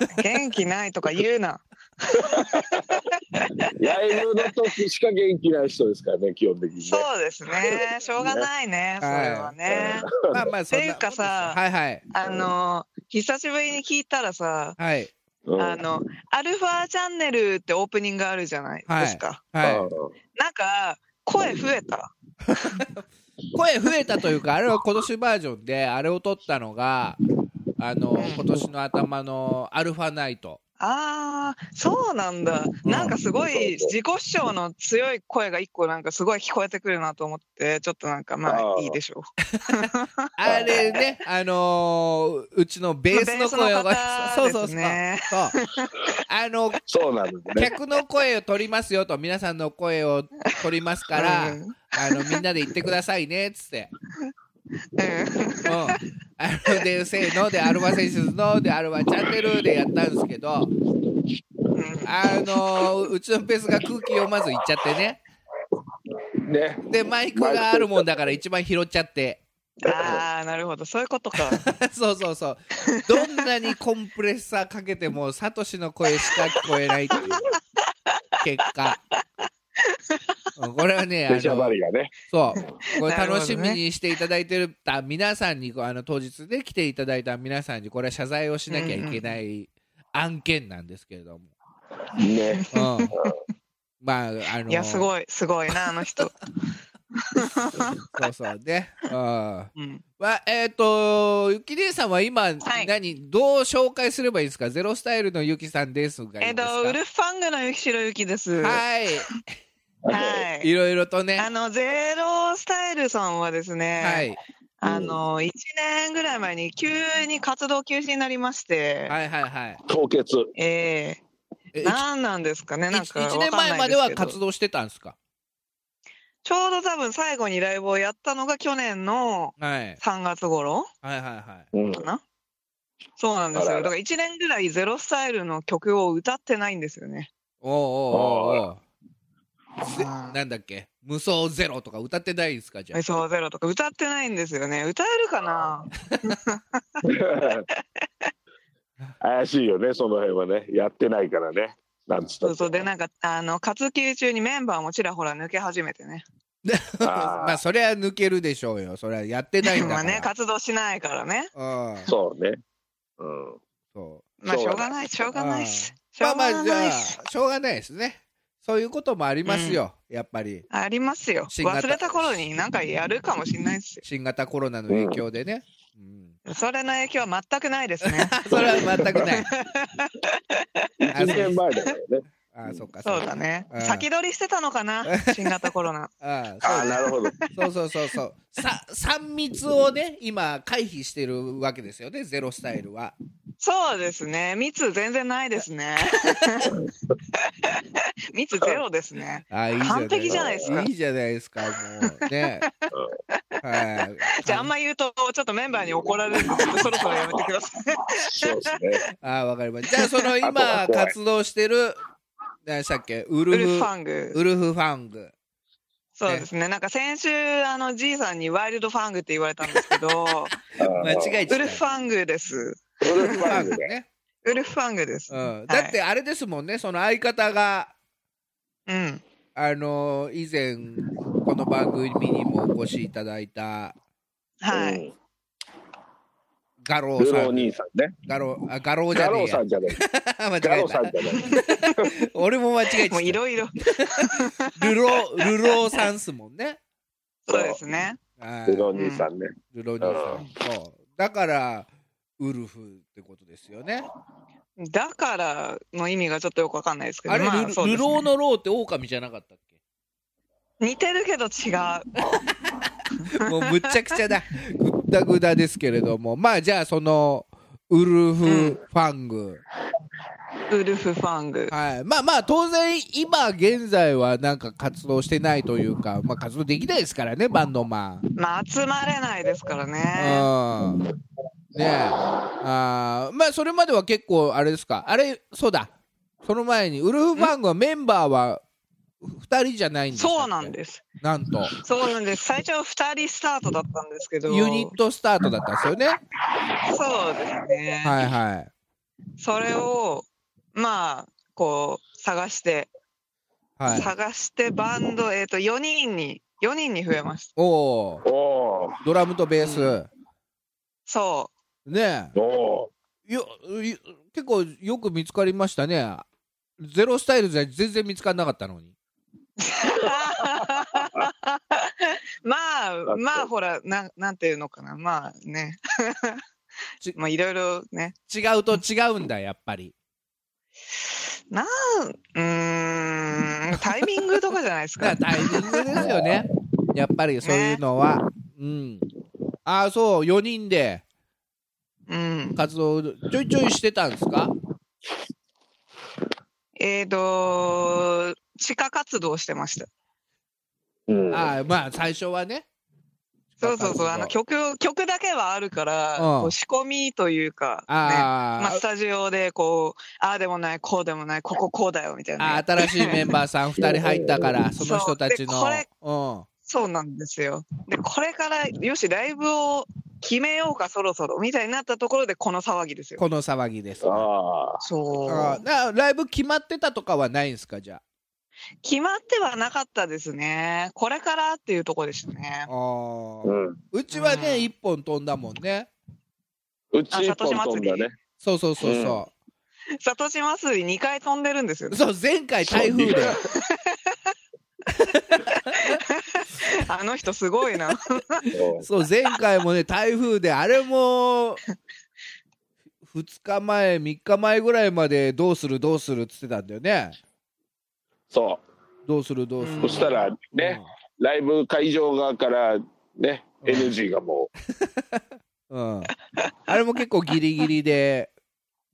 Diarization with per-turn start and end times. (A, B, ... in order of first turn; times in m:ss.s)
0:00.1-0:04.5 A
0:02.2-0:03.0 B
0:03.6-0:08.5 B
0:06.8-0:10.1 A
0:09.0-0:09.5 C
0:09.7-0:10.4 B
0:10.3-0:12.0 C
0:10.7-0:11.6 A
0:12.1-0:14.8 A
0:12.2-0:12.5 B
0:14.8-0:15.1 C
0:15.4-0:15.8 B
0:15.6-0:19.4 A
0:18.9-0:19.9 C
0:19.6-0:20.1 B
0:20.4-0:22.8 A
0:22.7-0:23.0 C
0:23.5-0:27.2 C
0:27.8-0:30.6 C
0:28.2-0:28.4 A
0:30.8-0:40.1 A
0:32.8-0:33.2 C
0:33.3-0:33.9 B
0:38.4-0:39.0 B
0:39.5-0:39.8 C
0:40.4-0:45.5 C
0:40.4-0:41.0 B
0:43.1-0:45.9 A
0:46.3-0:46.8 C
0:46.9-0:47.7 B
0:47.6-0:53.9 C
0:51.1-0:52.4 A
0:55.0-0:56.0 A
0:55.6-1:00.7 C
1:01.7-1:02.1 A
1:02.0-1:05.2 C
1:06.4-1:08.4 B
1:06.9-1:09.4 C
1:09.8-1:11.6 A
1:09.8-1:10.2 B
1:11.6-1:17.5 C
1:12.9-1:13.4 A
1:18.4-1:19.0 C
1:18.8-1:20.4 A
1:20.6-1:21.7 C
1:21.3-1:22.1 B
1:22.3-1:31.5 C
1:22.6-1:23.8 A
1:28.7-1:29.3 A
1:32.1-1:33.3 B
1:32.6-1:33.3 A
1:32.7-1:33.1 C
1:34.0-1:35.1 C
1:34.7-1:36.4 A
1:37.2-1:38.0 A
1:38.1-1:47.0 C
1:39.8-1:40.0 A
1:42.6-1:42.9 A
1:46.4-1:48.8 A
1:48.6-1:49.4 C
1:50.0-1:50.5 B
1:50.1-1:50.7 A
1:50.6-1:51.5 C
1:51.4-1:59.2 A
1:54.0-1:54.4 C
1:54.8-1:55.2 B
1:59.1-1:59.8 C
1:59.8-2:00.5 B
2:00.6-2:01.2 A
2:01.7-2:02.0 C
2:01.8-2:04.4 A
2:02.9-2:05.2 C
2:06.4-2:10.9 A
2:09.6-2:10.0 C
2:11.0-2:11.7 C
2:11.7-2:12.1 B
2:11.9-2:12.2 A
2:13.2-2:17.3 A
2:13.5-2:13.9 B
2:17.6-2:18.8 C
2:18.1-2:18.6 B
2:19.8-2:20.4 A
2:19.9-2:23.0 C
2:22.9-2:27.0 A
2:27.0-2:27.7 B
2:28.0-2:28.3 A
2:29.2-2:32.9 B
2:32.4-2:36.2 A
2:36.6-2:40.3 C
2:37.0-2:37.6 B
2:39.6-2:41.5 A
2:41.5-2:42.1 C
2:42.1-2:42.6 B
2:43.2-2:43.6 B
2:43.9-2:44.3 C
2:44.4-2:47.2 A
2:44.4-2:44.9 B
2:45.3-2:50.6 C
2:49.4-2:49.8 A
2:50.7-2:54.0 A
2:51.5-2:52.4 C
2:54.0-2:56.3 C
2:54.9-2:55.2 B
2:56.4-2:58.4 A
2:58.0-2:59.5 C
2:58.5-2:59.4 B
2:59.5-3:01.1 A
3:01.1-3:01.6 C
3:01.1-3:02.2 B
3:02.5-3:04.0 C
3:03.0-3:06.1 A
3:05.1-3:05.6 C
3:06.2-3:13.1 C
3:06.6-3:07.4 B
3:06.8-3:07.5 A
3:13.6-3:16.8 A
3:17.3-3:20.9 A
3:19.5-3:22.6 C
3:20.3-3:20.7 B
3:22.0-3:28.8 A
3:23.6-3:24.7 C
3:26.0-3:27.4 B
3:28.2-3:29.0 B
3:29.2-3:32.0 C
3:29.9-3:30.2 A
3:30.4-3:31.1 B
3:32.6-3:35.3 C
3:33.5-3:34.4 A
3:36.2-3:40.5 A
3:39.7-3:40.0 C
3:40.8-3:41.4 B
3:40.9-3:41.8 C
3:41.5-3:43.6 A
3:43.0-3:43.9 B
3:43.2-3:44.1 C
3:44.4-3:46.0 A
3:45.3-3:47.9 C
3:48.9-3:49.2 A
3:49.5-3:53.9 C
3:54.6-3:55.0 A
3:54.7-3:55.1 B
3:56.8-3:57.7 C
3:57.2-3:58.1 B
3:58.3-4:03.4 C
3:59.1-4:00.0 B
4:00.6-4:02.1 B
4:01.4-4:02.0 A
4:03.1-4:06.0 A
4:03.9-4:06.8 C
4:07.4-4:08.2 A
4:07.5-4:07.8 B
4:08.4-4:08.9 C
4:08.7-4:10.4 B
4:08.9-4:09.3 A
4:09.7-4:11.9 C
4:12.4-4:14.1 C
4:14.8-4:18.2 A
4:17.3-4:19.6 C
4:20.8-4:22.3 A
4:23.2-4:23.9 A
4:23.3-4:29.6 C
4:28.4-4:28.8 A
4:30.7-4:31.7 A
4:31.7-4:38.2 C
4:38.4-4:40.5 A
4:40.2-4:41.0 C
4:40.8-4:41.1 B
4:41.8-4:48.6 C
4:41.8-4:42.4 B
4:49.2-4:51.7 C
4:50.1-4:51.0 A
4:51.8-4:54.9 A
4:54.5-4:56.2 C
4:56.8-4:58.2 A
4:58.0-4:58.7 C
4:59.4-5:02.9 A
5:03.8-5:04.1 C
5:03.9-5:07.5 A
5:07.6-5:08.2 C
5:08.2-5:09.0 B
5:09.0-5:10.1 C
5:09.6-5:10.0 A
5:11.1-5:11.5 A
5:11.8-5:12.3 C
5:12.3-5:12.9 B
5:13.3-5:16.2 C
5:16.8-5:18.9 C
5:19.6-5:26.4 A
5:23.1-5:23.4 B
5:27.1-5:28.2 A
5:28.3-5:29.9 C
5:31.5-5:36.0 A
5:35.0-5:39.0 C
5:36.0-5:36.4 B
5:37.4-5:37.8 A
5:39.6-5:41.0 C
5:42.1-5:42.6 A
5:42.6-5:44.5 C
5:46.8-5:49.9 A
5:51.1-5:51.5 B
5:51.3-5:52.7 C
5:53.5-5:54.3 C
5:53.6-6:03.2 A
5:56.2-5:56.5 C
5:57.9-5:58.8 C
6:02.4-6:06.5 C
6:03.8-6:04.6 B
6:04.8-6:05.8 A
6:06.7-6:13.2 A
6:13.2-6:14.2 C
6:14.0-6:14.8 B
6:14.8-6:15.6 A
6:15.3-6:18.0 C
6:18.8-6:22.7 A
6:22.7-6:25.9 C
6:23.4-6:23.8 B
6:24.1-6:24.7 A
6:26.9-6:28.2 B
6:27.1-6:28.1 A
6:28.4-6:29.3 C
6:28.8-6:29.2 B
6:30.0-6:32.0 A
6:31.9-6:33.4 C
6:32.6-6:33.4 B
6:33.5-6:34.3 A
6:34.9-6:36.0 C
6:35.7-6:38.5 A
6:38.5-6:38.8 B
6:38.8-6:41.6 C
6:43.0-6:47.2 C
6:48.3-6:48.6 B
6:49.0-6:50.9 C
6:49.6-6:50.1 A
6:49.8-6:54.5 B
6:53.6-6:53.9 C
6:54.8-6:56.1 C
6:56.7-6:58.3 C